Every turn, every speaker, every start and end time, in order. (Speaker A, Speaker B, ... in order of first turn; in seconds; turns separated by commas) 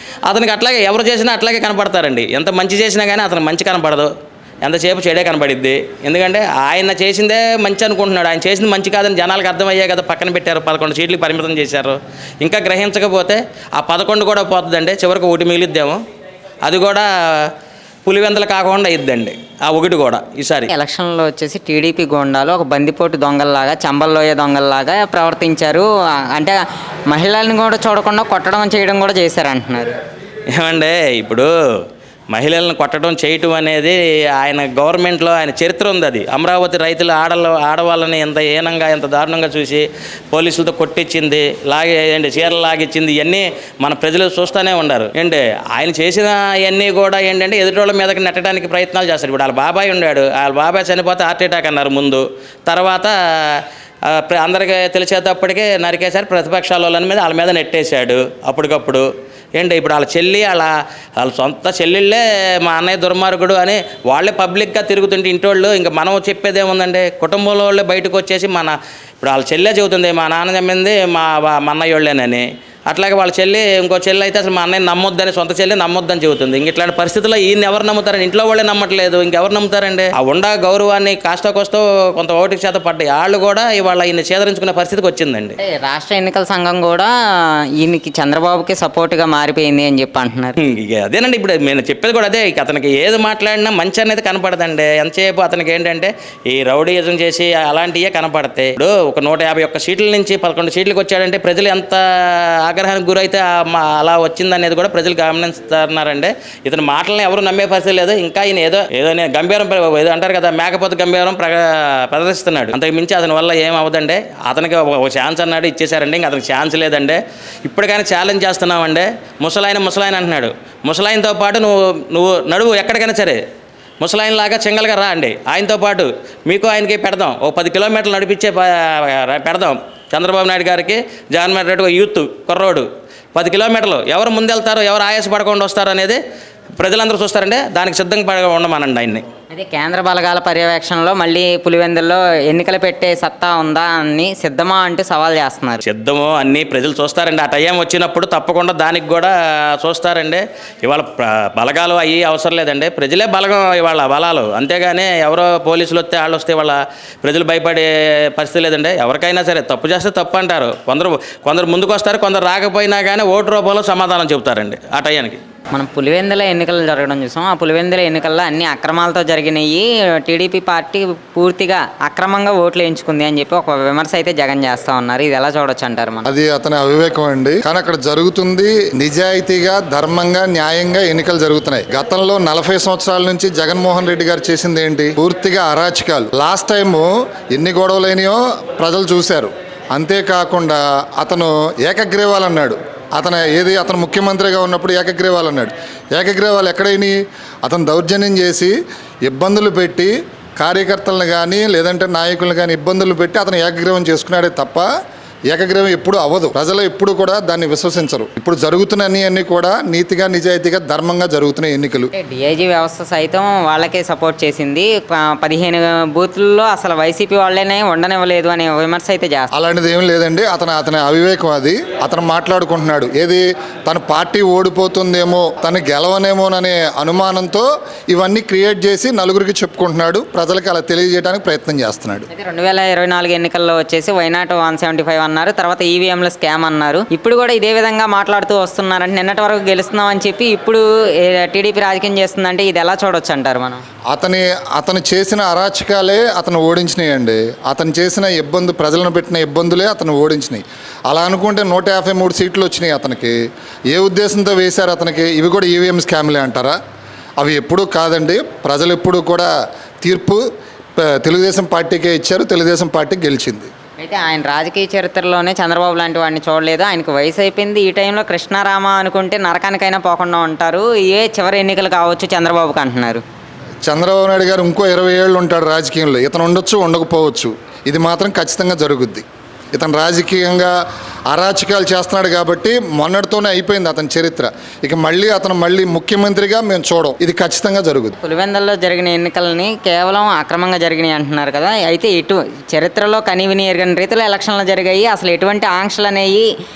Speaker A: 0.3-4.1, Speaker A: 4.6-16.0, Speaker A: 16.6-17.5, Speaker A: 18.0-20.7, Speaker B: 20.7-26.6, Speaker B: 27.1-29.9, Speaker A: 30.5-31.5, Speaker A: 32.3-59.1, Speaker A: 59.6-85.6, Speaker B: 85.6-87.1, Speaker B: 87.8-90.5, Speaker A: 90.6-123.4, Speaker A: 124.0-136.2, Speaker A: 136.8-139.2, Speaker B: 139.5-145.8, Speaker A: 145.8-165.4, Speaker B: 165.7-176.3, Speaker C: 176.3-204.9, Speaker C: 205.5-212.1, Speaker B: 212.1-219.5, Speaker C: 219.5-232.3, Speaker B: 232.3-243.8, Speaker C: 244.1-253.3, Speaker C: 253.9-256.8, Speaker C: 257.4-259.5, Speaker C: 260.0-260.4, Speaker C: 261.0-263.7, Speaker B: 264.0-273.2, Speaker C: 273.9-280.7, Speaker C: 281.3-288.1, Speaker B: 288.2-296.4